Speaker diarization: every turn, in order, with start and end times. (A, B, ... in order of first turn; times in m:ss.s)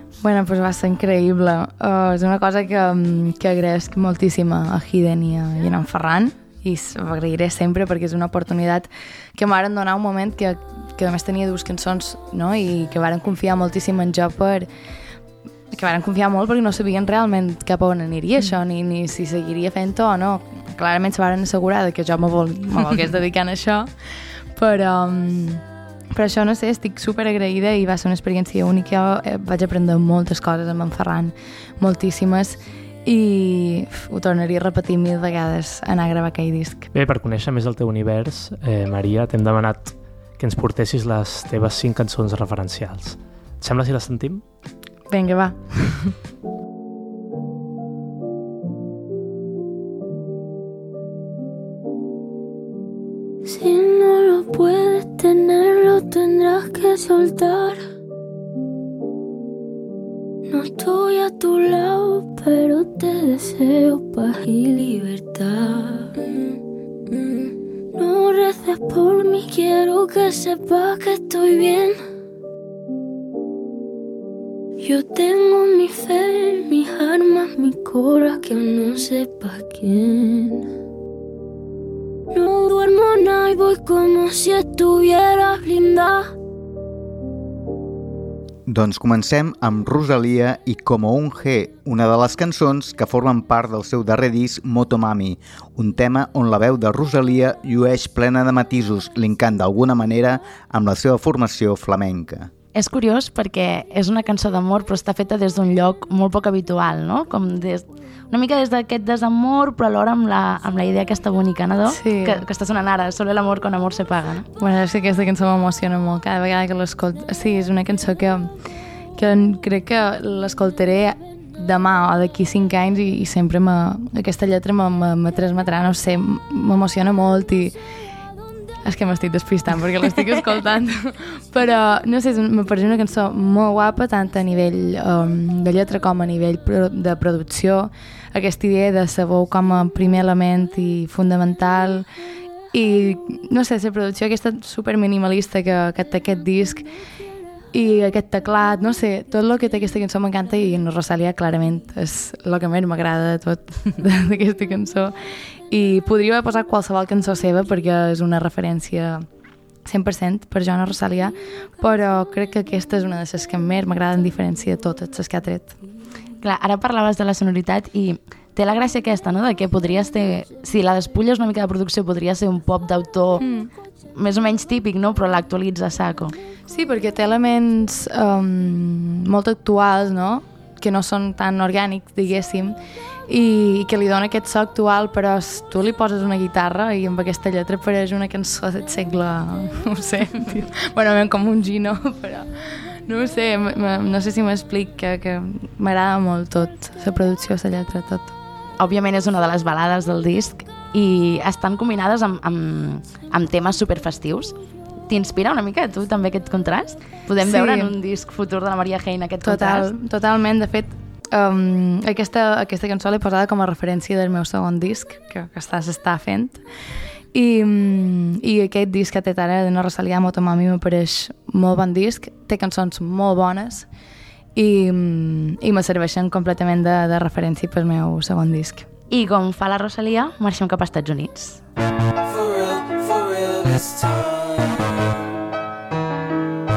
0:00.2-0:14.7 A
0:15.7-0:23.9 A
0:24.6-0:36.9 A
0:36.9-0:44.4 B
0:45.1-0:46.1 A
0:53.4-0:57.8 C
1:00.5-1:06.2 C
1:07.1-1:12.0 C
1:14.8-1:20.7 C
1:22.3-1:26.3 C
1:28.7-1:42.5 D
1:42.7-1:54.5 E
1:51.9-1:52.4 A
1:54.6-1:58.5 A
1:59.2-2:07.8 A
2:08.8-2:22.1 A
2:22.7-2:26.9 A
2:27.7-2:35.1 A
2:35.7-2:39.2 A
2:39.8-2:45.8 A
2:46.4-2:53.4 E
2:53.4-2:53.7 A
2:54.2-2:56.3 E
2:56.7-3:02.8 A
3:03.3-3:12.5 A
3:13.0-3:18.3 A
3:18.8-3:24.6 E
3:25.1-3:29.9 E
3:27.4-3:27.9 A
3:29.4-3:36.6 A
3:37.3-3:43.9 A
3:44.6-3:48.9 A
3:49.1-3:51.6 E
3:52.2-3:54.9 F